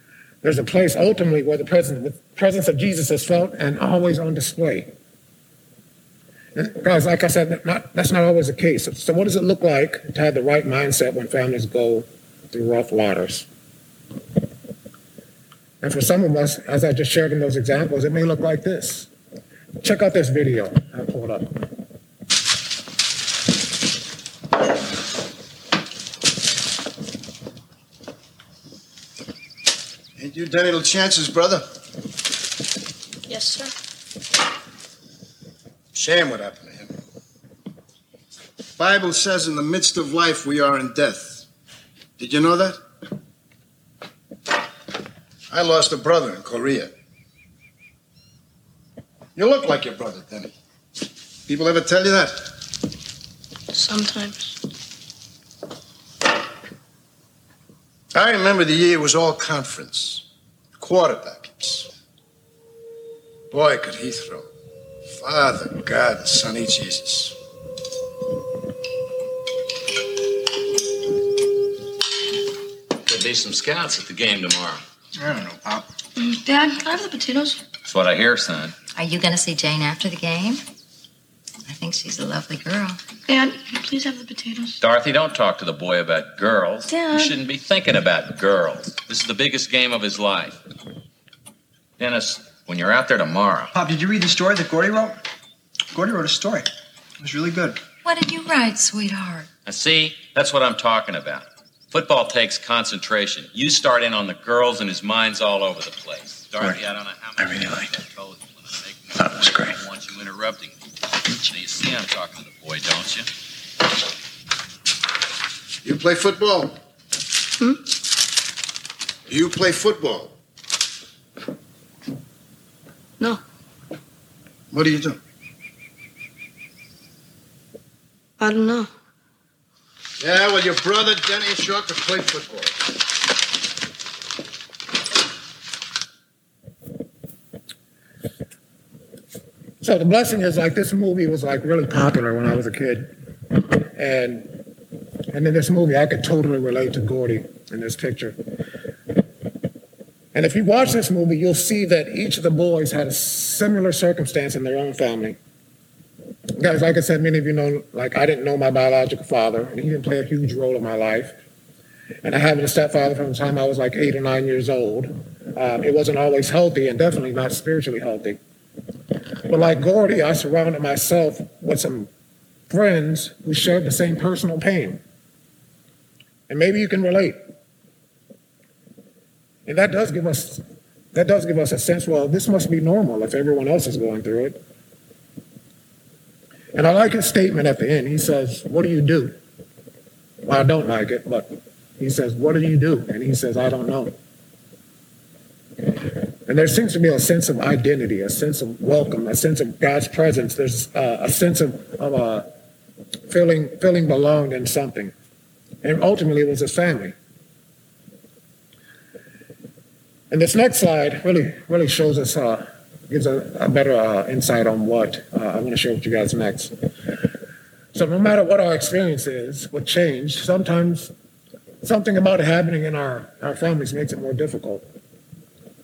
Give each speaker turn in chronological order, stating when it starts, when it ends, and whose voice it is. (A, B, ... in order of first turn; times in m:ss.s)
0:00.4-0:04.9 A
0:06.6-0:13.5 A
0:15.8-0:19.1 A
0:19.8-0:21.6 A
0:30.2-0:31.6 B
0:33.3-0:33.7 C
0:35.9-0:36.9 B
0:38.8-0:41.5 B
0:42.2-0:42.8 B
0:45.5-0:46.9 B
0:49.4-0:50.5 B
0:51.5-0:52.5 B
0:53.7-0:54.6 C
0:58.1-1:00.2 B
1:00.8-1:01.9 B
1:03.5-1:04.5 B
1:05.1-1:07.4 B
1:13.1-1:14.8 D
1:15.2-1:15.9 B
1:16.2-1:17.6 C
1:17.8-1:18.8 D
1:18.9-1:20.6 E
1:21.7-1:23.0 E
1:23.3-1:24.8 C
1:24.8-1:30.6 D
1:26.9-1:27.3 C
1:32.0-1:33.7 D
1:33.7-1:35.2 F
1:35.9-1:37.8 F
1:38.0-1:39.5 E
1:39.7-1:53.3 D
1:47.4-1:47.9 F
1:49.3-1:49.7 F
1:55.8-1:56.8 B
1:59.3-2:00.4 B
2:04.7-2:05.2 B
2:08.4-2:08.9 C
2:10.2-2:12.8 B
2:19.8-2:23.1 A
2:24.0-2:24.6 A
2:25.3-2:28.4 A
2:30.3-2:35.4 A
2:36.6-2:41.4 A
2:42.2-2:48.4 A
2:49.5-2:52.1 A
2:52.7-2:55.0 A
2:56.5-2:57.4 A
2:59.7-3:00.6 A
3:01.1-3:04.6 A
3:06.7-3:09.4 A
3:10.4-3:14.2 A
3:16.5-3:22.5 A
3:23.3-3:25.1 A
3:25.8-3:27.2 A
3:30.3-3:36.7 A
3:37.9-3:41.1 A
3:41.8-3:44.8 A